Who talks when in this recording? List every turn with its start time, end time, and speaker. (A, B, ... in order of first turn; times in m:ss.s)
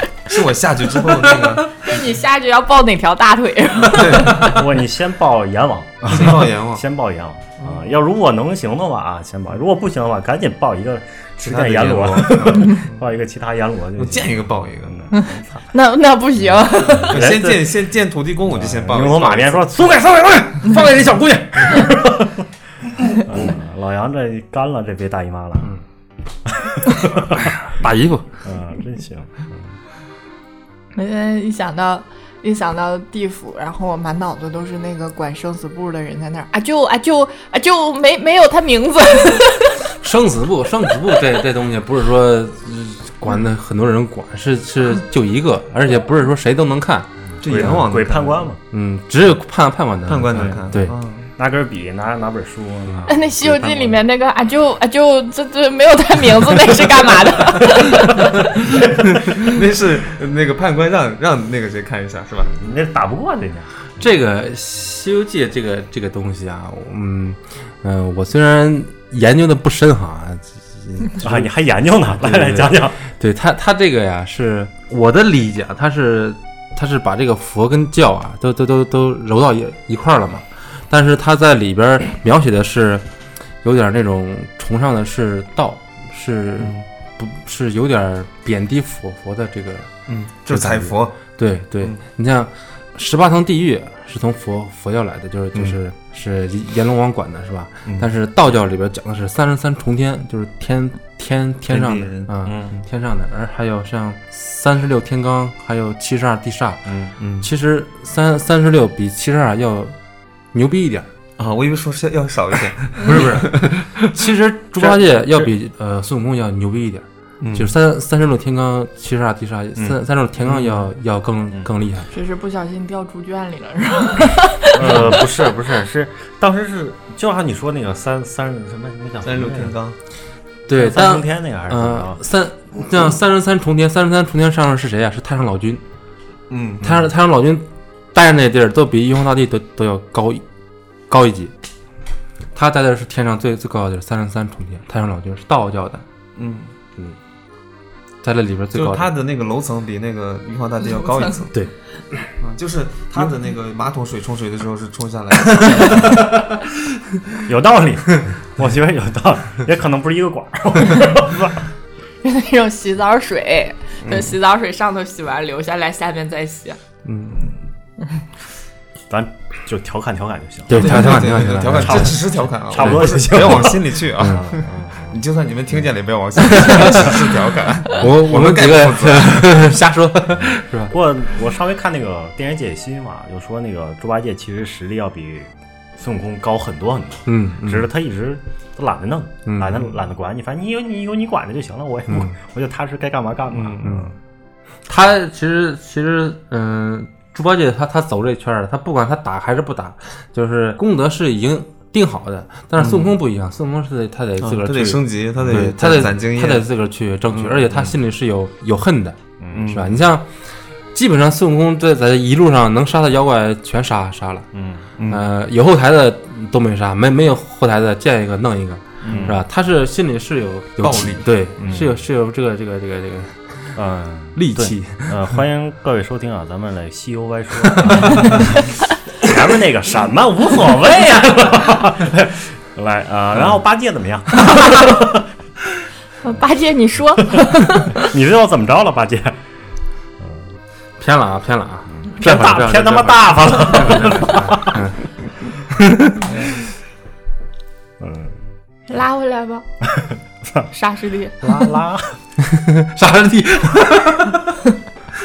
0:00.3-0:01.7 A
0:01.7-0:04.4 B
0:03.9-0:04.6 A
0:04.0-0:15.6 C
0:06.1-0:06.8 A
0:07.6-0:08.0 A
0:11.4-0:12.9 A
0:14.0-0:15.1 A
0:15.1-0:17.2 B
0:16.9-0:17.8 C
0:17.1-0:19.7 A
0:18.5-0:22.4 C
0:23.2-0:25.8 C
0:26.5-0:27.4 C
0:27.7-0:28.3 D
0:28.4-0:29.8 C
0:30.9-0:39.8 B
0:40.0-0:47.8 D
0:47.4-0:48.6 C
0:47.4-0:48.5 A
0:48.7-0:50.9 D
0:50.1-0:51.3 A
0:50.3-0:50.6 C
0:51.4-0:54.0 C
0:53.1-0:58.8 B
0:59.3-1:02.6 A
1:02.6-1:03.9 C
1:04.0-1:11.5 D
1:11.2-1:13.0 C
1:12.2-1:23.0 D
1:23.6-1:29.9 D
1:26.6-1:26.8 A
1:30.1-1:31.2 A
1:30.5-1:46.8 D
1:41.7-1:42.3 A
1:42.4-1:42.7 C
1:46.9-1:47.1 C
1:47.2-1:47.5 A
1:47.4-1:49.9 D
1:50.5-1:51.1 D
1:51.4-1:53.9 A
1:53.0-2:02.1 D
1:54.8-1:55.5 C
1:57.4-1:57.7 A
2:00.4-2:00.9 A
2:02.1-2:05.2 B
2:04.7-2:09.7 C
2:09.2-2:10.0 A
2:10.7-2:15.8 D
2:10.7-2:12.2 C
2:16.5-2:17.0 A
2:16.8-2:20.4 D
2:21.1-2:21.5 D
2:22.5-2:26.0 D
2:26.4-2:26.7 A
2:28.2-2:29.1 D
2:28.7-2:31.6 A
2:32.4-2:36.3 A
2:37.4-2:41.7 C
2:42.2-2:46.8 B
2:47.1-2:47.5 A
2:49.1-2:55.2 C
2:50.7-2:52.2 D
2:50.7-2:59.7 A
2:52.8-2:53.5 D
2:56.4-2:57.2 D
2:57.9-3:00.9 D
3:00.4-3:14.1 C
3:07.3-3:07.9 D
3:09.5-3:09.8 D
3:13.5-3:14.1 A
3:14.9-3:30.3 D
3:22.8-3:23.2 A
3:24.4-3:26.7 A
3:27.3-3:27.9 A
3:29.4-3:29.7 C
3:29.5-3:30.0 A
3:30.9-3:34.5 D
3:34.5-3:34.9 C
3:35.0-3:35.2 A
3:35.1-3:43.4 D
3:39.0-3:39.4 A
3:39.1-3:39.4 C
3:40.8-3:41.8 A
3:41.6-3:42.0 C
3:43.8-3:55.2 C
3:44.4-3:45.2 D
3:56.2-3:58.1 B
3:57.9-3:59.4 C
4:00.2-4:00.5 C
4:01.0-4:05.0 D
4:01.9-4:04.8 C
4:05.7-4:06.3 D
4:08.0-4:08.4 C
4:08.9-4:09.7 B
4:10.0-4:10.7 C
4:10.7-4:11.7 B
4:11.4-4:12.2 C
4:12.5-4:14.4 D